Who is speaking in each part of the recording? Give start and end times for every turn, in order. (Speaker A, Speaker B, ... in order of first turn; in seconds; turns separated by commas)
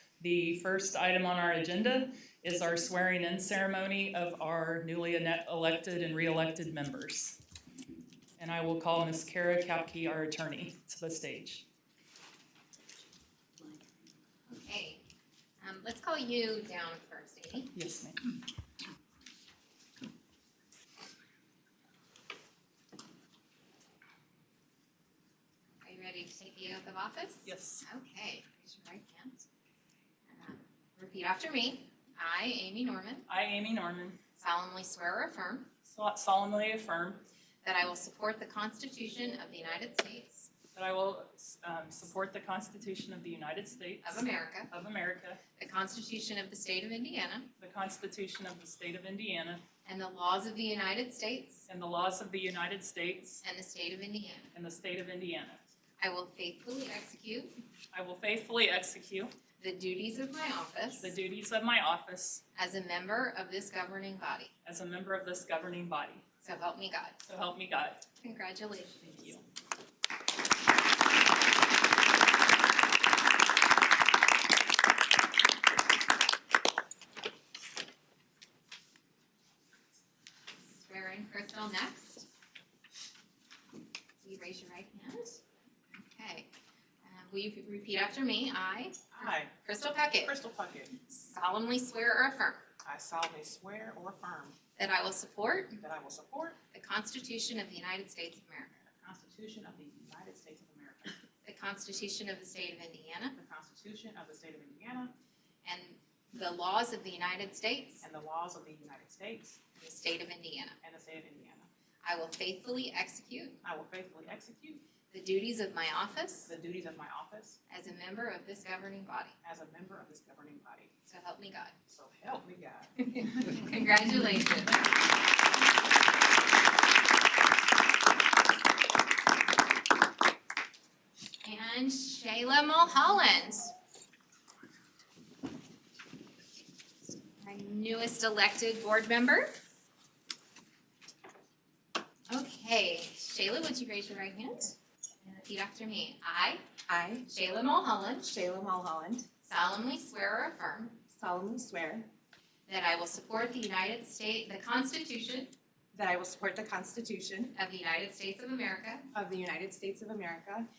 Speaker A: 0.2-7.4, Speaker A: 8.4-11.6, Speaker B: 14.5-15.0, Speaker B: 15.6-17.7, Speaker A: 17.7-18.2, Speaker B: 25.8-29.4, Speaker A: 27.4-27.8, Speaker B: 30.3-33.2, Speaker A: 33.3-34.2, Speaker B: 34.4-35.7, Speaker A: 35.8-37.2, Speaker B: 37.6-40.5, Speaker A: 40.7-45.4, Speaker B: 44.0-44.7, Speaker B: 45.6-47.5, Speaker A: 47.6-49.6, Speaker B: 49.8-51.6, Speaker A: 51.7-53.4, Speaker B: 53.4-54.5, Speaker A: 54.5-55.7, Speaker B: 56.0-57.5, Speaker A: 57.9-59.3, Speaker B: 59.6-61.1, Speaker A: 61.0-62.4, Speaker B: 62.5-64.5, Speaker A: 64.6-66.2, Speaker B: 66.4-67.2, Speaker A: 67.2-68.0, Speaker B: 68.2-69.4, Speaker B: 80.7-82.3, Speaker B: 84.2-85.4, Speaker B: 85.9-86.5, Speaker B: 87.0-90.3, Speaker C: 89.1-89.5, Speaker C: 90.2-90.9, Speaker B: 91.1-92.6, Speaker C: 92.8-94.6, Speaker B: 94.8-95.8, Speaker C: 95.8-96.6, Speaker B: 96.7-98.8, Speaker C: 98.8-101.2, Speaker B: 101.4-103.4, Speaker C: 103.3-105.1, Speaker B: 105.6-108.0, Speaker C: 108.0-109.6, Speaker B: 109.8-110.8, Speaker C: 110.8-111.7, Speaker B: 112.0-113.6, Speaker C: 113.6-114.8, Speaker B: 115.1-116.5, Speaker C: 116.4-117.6, Speaker B: 117.7-119.3, Speaker C: 119.4-120.9, Speaker B: 121.1-121.8, Speaker C: 121.9-122.9, Speaker B: 123.0-124.8, Speaker B: 131.4-133.7, Speaker B: 137.4-139.6, Speaker B: 142.3-146.6, Speaker D: 146.9-147.3, Speaker B: 147.2-148.3, Speaker D: 148.3-149.3, Speaker B: 149.4-151.0, Speaker D: 151.1-152.1, Speaker B: 152.7-155.5, Speaker D: 155.9-157.5, Speaker B: 157.5-159.1, Speaker D: 159.1-160.7